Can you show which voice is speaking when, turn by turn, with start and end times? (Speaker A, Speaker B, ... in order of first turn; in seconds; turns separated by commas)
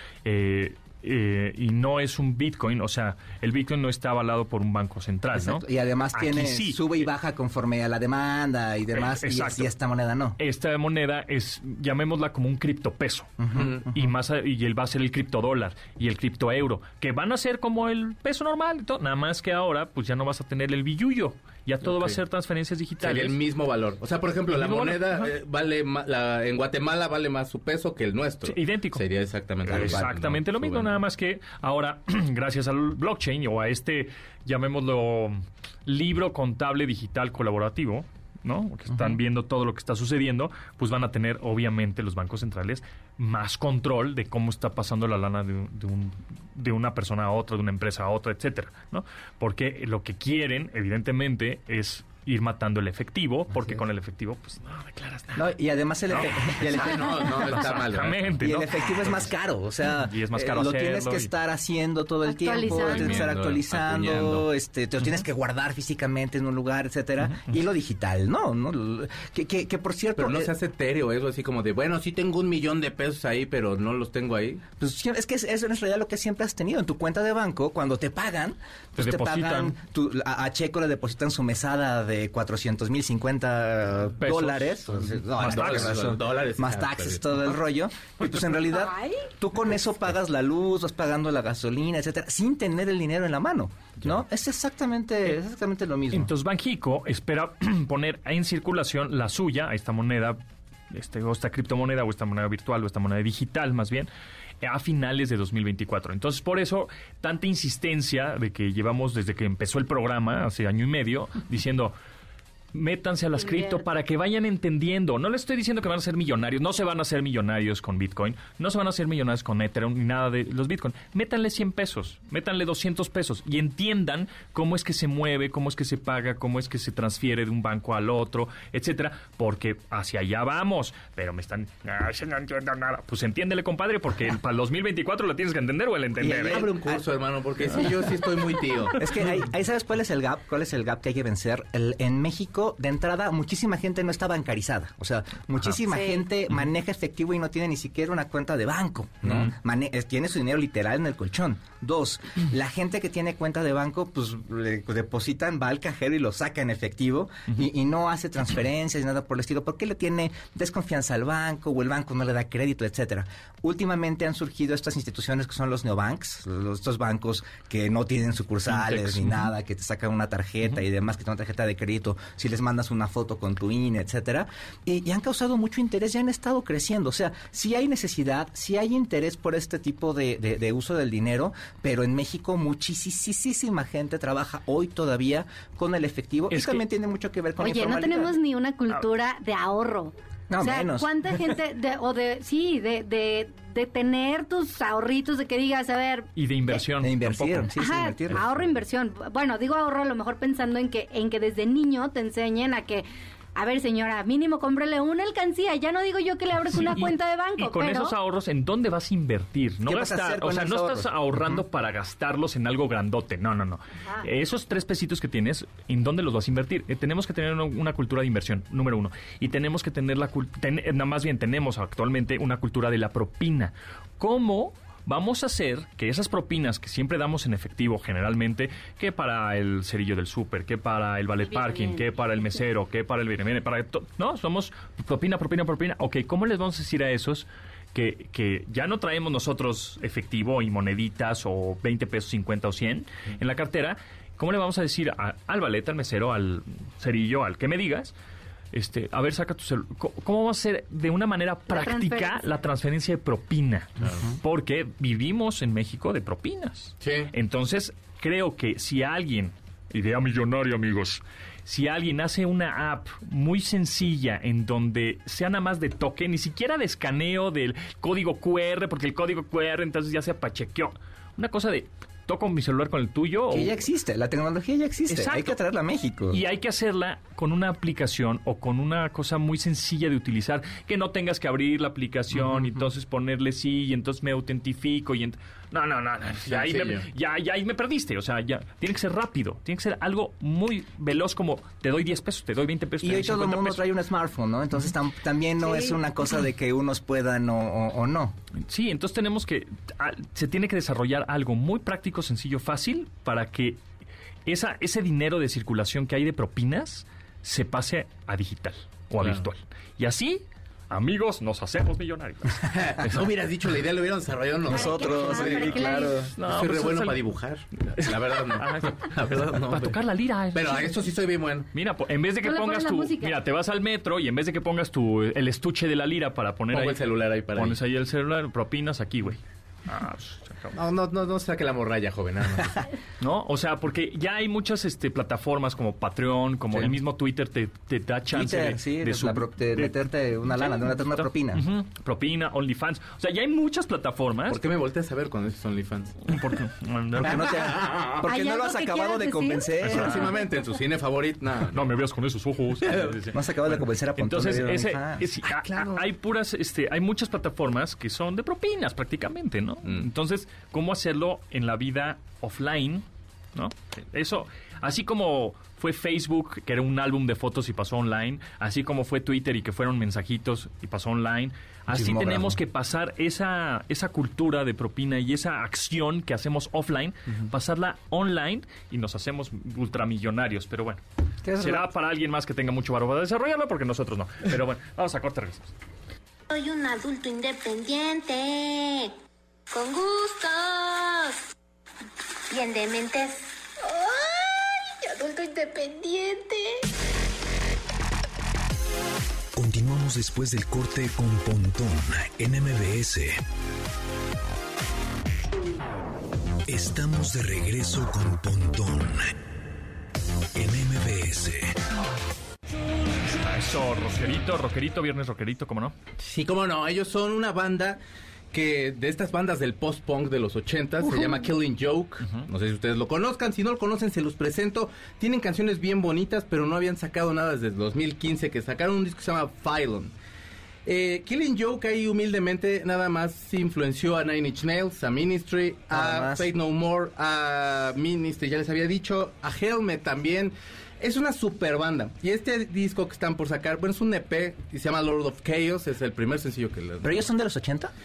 Speaker A: 0.2-7.0, Speaker B: 5.3-10.4, Speaker A: 8.9-9.7, Speaker A: 10.4-23.4, Speaker B: 13.4-14.0, Speaker C: 13.5-13.8, Speaker C: 21.9-22.2, Speaker C: 23.0-31.0, Speaker A: 24.5-25.3, Speaker A: 28.4-29.1, Speaker A: 29.6-55.5, Speaker B: 29.7-30.0, Speaker B: 38.9-39.2, Speaker B: 55.4-57.7, Speaker A: 56.1-59.3, Speaker C: 56.6-58.3, Speaker B: 58.4-70.5, Speaker A: 59.9-61.3, Speaker D: 62.2-63.3, Speaker C: 62.6-64.5, Speaker C: 70.2-74.6, Speaker B: 74.8-96.3, Speaker A: 79.0-79.8, Speaker A: 84.2-86.2, Speaker C: 85.3-87.5, Speaker D: 88.7-89.3, Speaker A: 96.1-100.4, Speaker A: 100.9-104.1, Speaker A: 104.6-112.0, Speaker A: 112.7-136.7, Speaker D: 113.4-113.8, Speaker B: 136.2-137.1, Speaker C: 136.4-139.1, Speaker B: 139.0-188.4, Speaker D: 145.9-146.2, Speaker A: 168.7-169.5, Speaker A: 186.5-186.8, Speaker D: 187.6-196.3, Speaker B: 190.5-191.4, Speaker A: 196.4-197.7, Speaker B: 196.7-198.4, Speaker D: 197.8-208.2, Speaker A: 206.7-248.1, Speaker B: 209.8-211.6, Speaker D: 231.4-232.1, Speaker A: 248.7-273.9, Speaker D: 251.7-252.5, Speaker C: 257.0-257.3, Speaker B: 273.5-276.4, Speaker A: 275.1-275.6, Speaker A: 276.3-293.9, Speaker B: 282.4-282.8, Speaker C: 286.5-287.1, Speaker B: 293.0-298.4, Speaker A: 298.6-303.8, Speaker A: 304.5-312.7, Speaker C: 309.2-309.4, Speaker C: 312.6-320.0, Speaker B: 314.7-316.3, Speaker D: 314.7-316.2, Speaker A: 316.4-317.2, Speaker A: 317.9-321.0, Speaker C: 320.5-321.7, Speaker A: 321.7-330.8, Speaker D: 322.4-323.4, Speaker C: 326.7-327.8, Speaker C: 330.7-332.9, Speaker A: 333.2-339.9, Speaker B: 338.3-341.7, Speaker A: 340.5-344.6, Speaker C: 344.5-346.3, Speaker A: 346.2-347.8, Speaker B: 347.2-350.3, Speaker C: 347.8-348.2, Speaker D: 348.2-349.7, Speaker A: 349.8-350.3, Speaker C: 349.8-351.9, Speaker A: 351.7-381.0, Speaker C: 352.9-353.1, Speaker B: 353.3-356.0, Speaker B: 371.9-372.6, Speaker B: 381.4-381.9, Speaker A: 381.6-385.7, Speaker E: 386.5-389.1, Speaker E: 389.7-391.4, Speaker E: 392.5-396.9, Speaker F: 399.6-403.4, Speaker F: 406.7-409.4, Speaker F: 410.6-411.8, Speaker A: 413.3-415.9, Speaker C: 416.2-418.0, Speaker C: 418.5-430.1, Speaker C: 430.9-447.2, Speaker B: 435.9-436.5, Speaker B: 447.0-447.9